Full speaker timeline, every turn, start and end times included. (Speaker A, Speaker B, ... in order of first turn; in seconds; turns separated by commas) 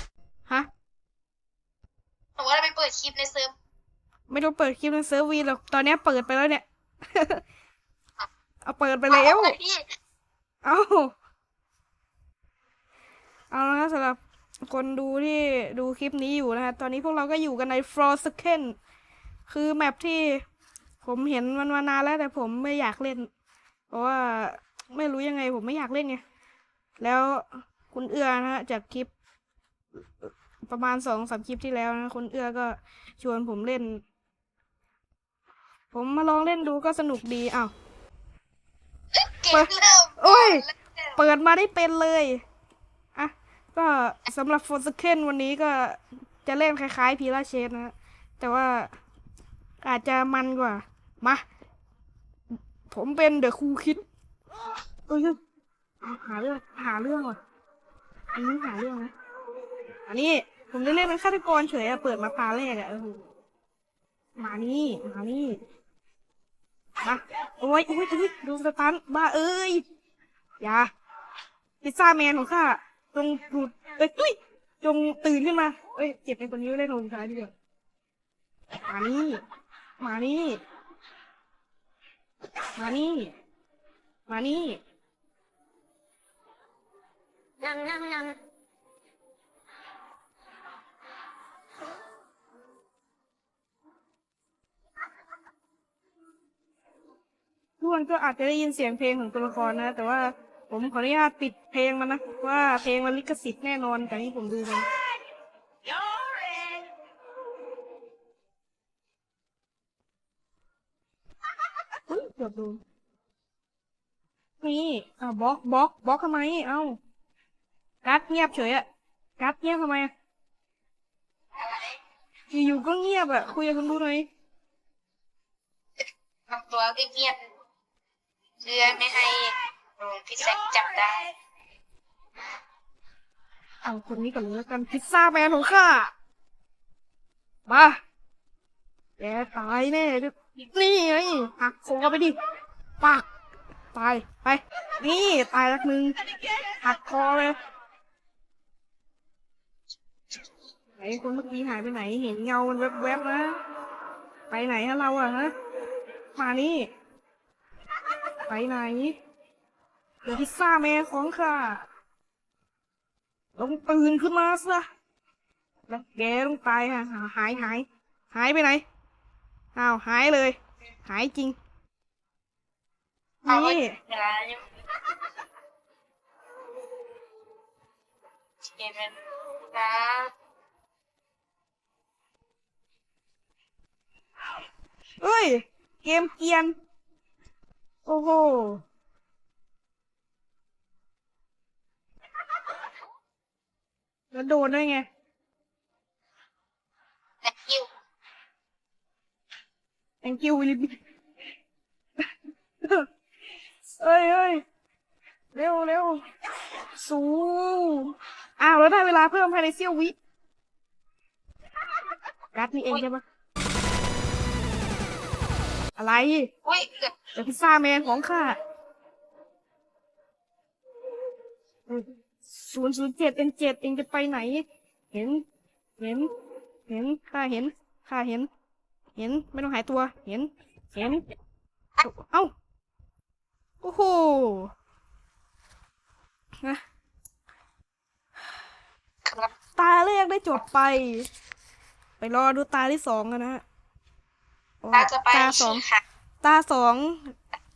Speaker A: 2.4-3.5, Speaker B: 4.3-7.4, Speaker B: 8.6-9.6, Speaker A: 9.1-9.8, Speaker B: 10.6-11.1, Speaker B: 13.5-18.7, Speaker B: 19.5-20.4, Speaker B: 21.0-23.3, Speaker B: 23.9-26.2, Speaker B: 27.0-29.1, Speaker B: 30.2-34.0, Speaker B: 35.9-37.7, Speaker A: 39.1-41.2, Speaker B: 39.5-40.6, Speaker B: 41.2-42.4, Speaker B: 43.1-48.9, Speaker B: 49.8-51.4, Speaker B: 52.9-54.0, Speaker B: 55.1-55.4, Speaker B: 56.0-57.4, Speaker B: 58.3-59.1, Speaker B: 60.1-63.2, Speaker B: 64.4-65.5, Speaker B: 67.0-69.8, Speaker B: 70.6-70.9, Speaker B: 71.8-77.5, Speaker B: 78.9-79.4, Speaker B: 80.0-80.6, Speaker B: 82.8-83.3, Speaker B: 84.3-84.8, Speaker B: 97.8-104.9, Speaker B: 112.1-112.8, Speaker B: 114.6-117.0, Speaker B: 118.0-118.8, Speaker B: 119.4-120.1, Speaker A: 121.6-121.9, Speaker B: 122.5-124.3, Speaker A: 126.5-127.4, Speaker A: 128.6-131.3, Speaker B: 133.8-136.1, Speaker B: 137.7-138.0, Speaker B: 139.2-142.3, Speaker B: 143.9-146.1, Speaker B: 146.8-147.6, Speaker B: 151.0-153.6, Speaker B: 154.5-155.5, Speaker B: 156.3-156.9, Speaker B: 158.5-159.1, Speaker B: 160.2-161.8, Speaker B: 163.6-164.8, Speaker B: 165.9-168.8, Speaker B: 169.7-171.6, Speaker B: 173.4-174.0, Speaker A: 173.4-174.6, Speaker A: 178.7-179.2, Speaker A: 179.7-180.3, Speaker B: 185.2-186.8, Speaker B: 188.1-188.8, Speaker B: 194.3-195.0, Speaker A: 197.4-197.9, Speaker B: 200.2-200.9, Speaker B: 204.0-204.6, Speaker B: 205.5-206.2, Speaker B: 206.9-210.1, Speaker B: 212.5-213.2, Speaker B: 216.0-216.5, Speaker A: 216.7-217.1, Speaker B: 217.3-218.6, Speaker B: 221.9-225.4, Speaker B: 226.0-226.3, Speaker B: 226.9-228.5, Speaker B: 229.2-231.2, Speaker B: 232.0-232.5, Speaker B: 233.8-234.7, Speaker A: 239.2-239.5, Speaker B: 239.7-241.3, Speaker B: 242.2-243.6, Speaker B: 244.8-245.8, Speaker A: 244.9-246.0, Speaker B: 246.4-247.3